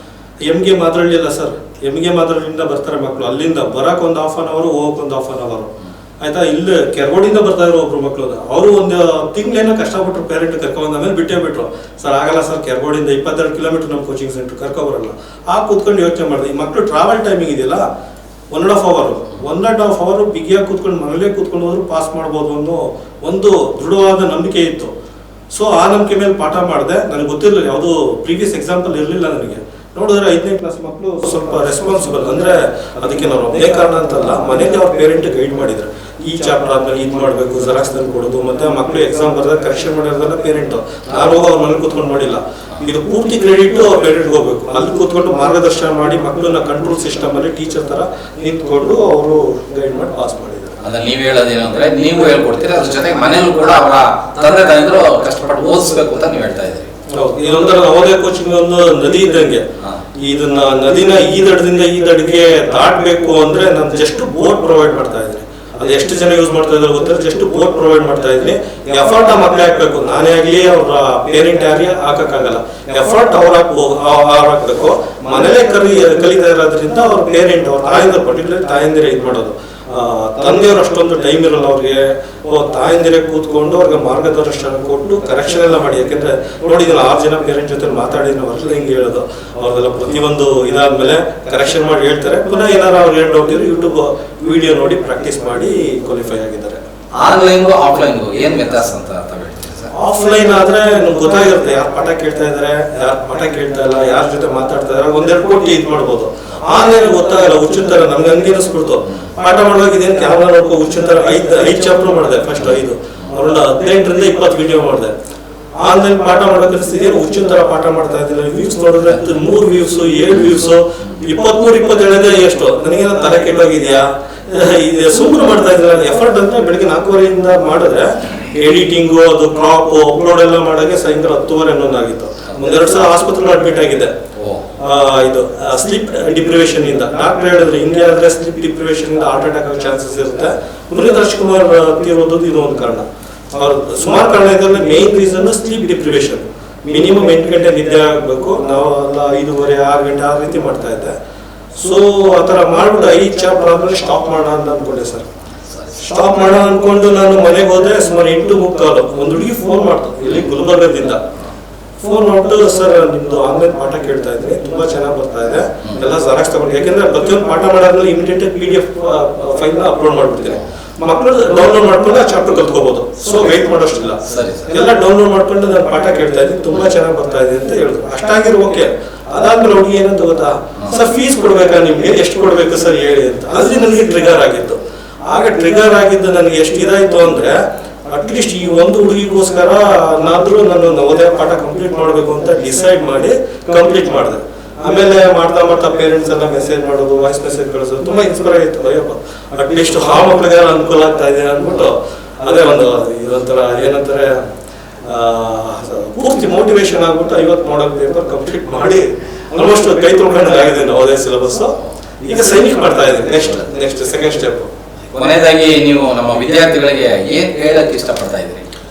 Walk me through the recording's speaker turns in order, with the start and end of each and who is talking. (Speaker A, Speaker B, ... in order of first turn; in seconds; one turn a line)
Speaker A: 0.5-17.9
Speaker A: 18.5-24.9
Speaker A: 25.5-50.8
Speaker B: 50.8-56.9
Speaker A: 57.1-96.8
Speaker B: 97.2-99.9
Speaker A: 100.0-115.1
Speaker A: 115.8-134.1
Speaker B: 134.3-134.7
Speaker A: 134.8-151.1
Speaker A: 151.7-155.3
Speaker B: 155.5-156.0
Speaker A: 156.0-161.2
Speaker A: 162.0-187.6
Speaker B: 174.2-174.7
Speaker A: 188.1-204.5
Speaker A: 205.0-214.7
Speaker B: 215.1-218.7